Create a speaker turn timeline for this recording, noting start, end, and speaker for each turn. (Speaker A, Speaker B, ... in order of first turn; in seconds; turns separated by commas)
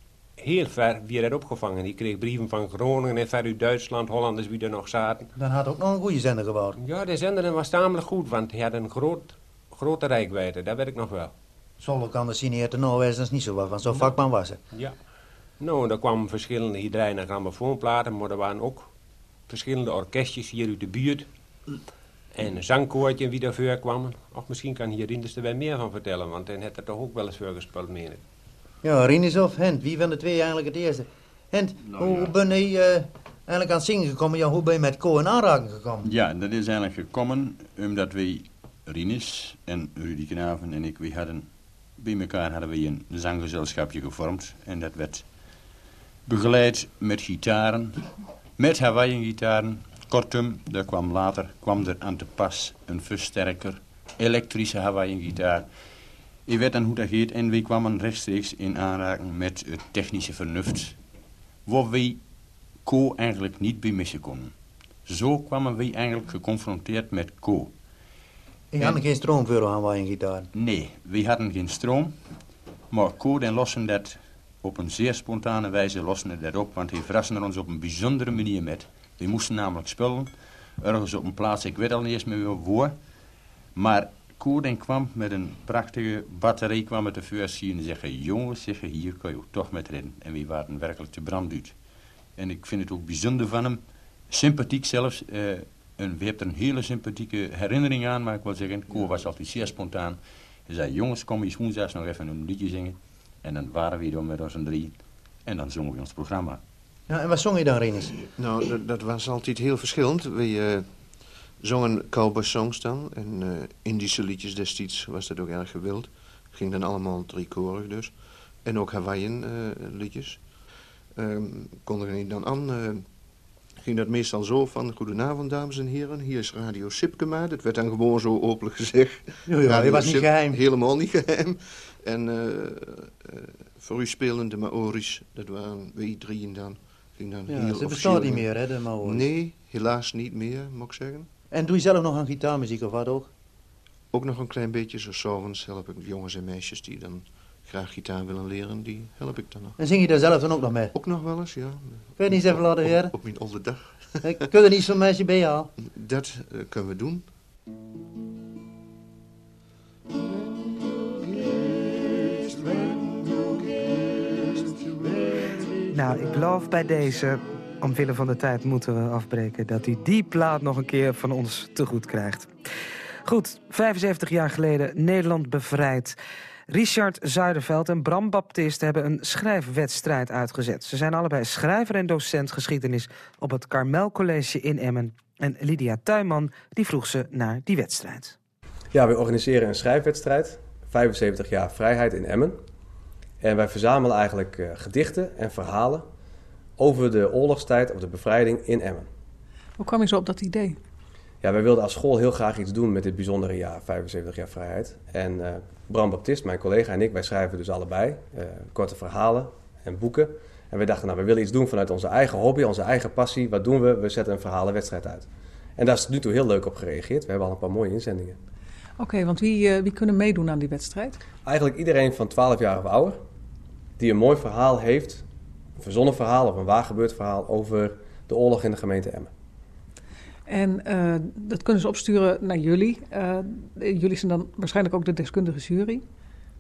Speaker A: 0.4-5.3, Speaker B: 5.3-6.8, Speaker A: 6.8-11.3, Speaker B: 11.8-14.6, Speaker A: 15.6-18.9, Speaker A: 19.5-21.3, Speaker A: 22.3-28.2, Speaker B: 28.8-36.1, Speaker C: 36.0-45.7, Speaker C: 46.2-61.0, Speaker C: 61.6-67.8, Speaker B: 68.7-70.5, Speaker C: 70.5-72.3, Speaker C: 72.9-83.0, Speaker C: 83.7-106.6, Speaker B: 107.1-108.3, Speaker D: 108.3-141.3, Speaker B: 129.5-130.6, Speaker B: 137.5-139.2, Speaker B: 141.5-143.3, Speaker D: 144.1-149.8, Speaker B: 149.8-150.9, Speaker D: 150.9-154.4, Speaker B: 152.2-153.2, Speaker B: 154.2-155.7, Speaker D: 155.8-157.3, Speaker B: 161.7-163.6, Speaker B: 165.0-165.3, Speaker E: 165.9-172.5, Speaker B: 165.9-166.2, Speaker E: 173.2-176.2, Speaker E: 176.7-188.4, Speaker F: 188.9-192.6, Speaker F: 193.4-196.1, Speaker F: 196.8-199.1, Speaker G: 199.8-200.8, Speaker F: 201.4-218.4, Speaker G: 219.0-221.2, Speaker F: 221.4-223.2, Speaker F: 224.0-225.2, Speaker F: 225.8-229.3, Speaker G: 230.5-236.1